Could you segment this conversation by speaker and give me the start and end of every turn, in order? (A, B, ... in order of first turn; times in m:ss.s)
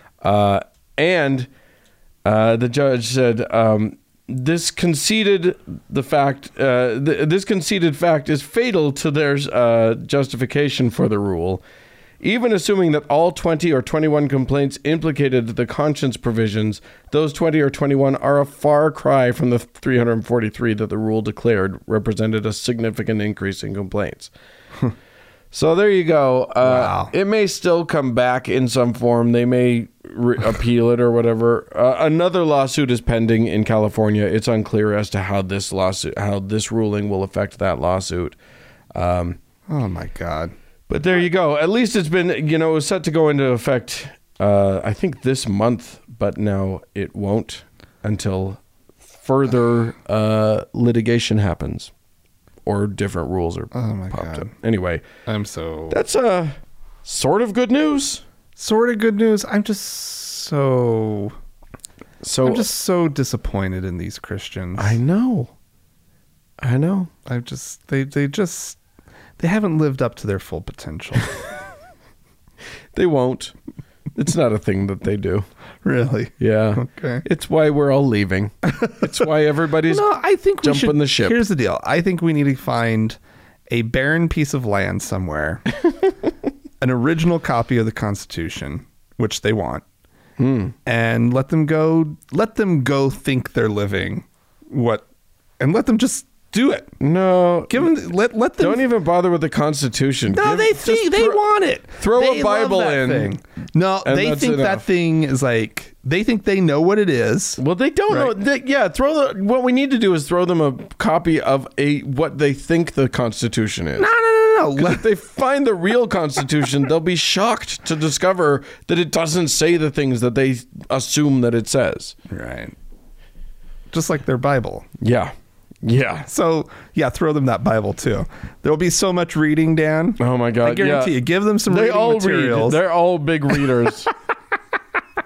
0:00.2-0:01.5 A
0:02.2-0:11.6 A
0:12.2-0:24.3 A
0:25.5-0:38.4 A
0:26.6-0:27.1 B
0:39.0-0:39.4 A
0:39.7-0:40.5 B
0:40.9-0:48.6 A
0:49.2-0:51.9 A
0:52.7-0:55.0 A
0:53.7-0:54.5 B
0:55.3-0:56.0 B
0:55.9-0:58.2 A
0:58.6-1:01.4 B
1:02.2-1:02.7 A
1:02.4-1:05.0 B
1:04.8-1:05.5 A
1:06.6-1:07.1 A
1:07.3-1:08.8 B
1:09.4-1:11.4 B
1:12.9-1:13.6 A
1:14.2-1:15.5 A
1:15.8-1:17.2 B
1:16.4-1:20.1 A
1:19.9-1:23.2 B
1:20.6-1:21.4 A
1:23.7-1:25.6 B
1:26.8-1:29.8 B
1:30.4-1:30.8 A
1:30.9-1:35.0 B
1:35.6-1:36.9 B
1:37.0-1:37.9 A
1:37.7-1:38.9 B
1:38.6-1:41.4 A
1:40.3-1:48.4 B
1:42.0-1:43.3 A
1:44.0-1:44.8 A
1:47.6-1:54.1 A
1:54.0-1:55.1 B
1:54.8-2:02.2 A
2:02.3-2:02.8 B
2:03.9-2:04.9 B
2:05.0-2:06.3 A
2:06.3-2:12.8 B
2:10.2-2:14.1 A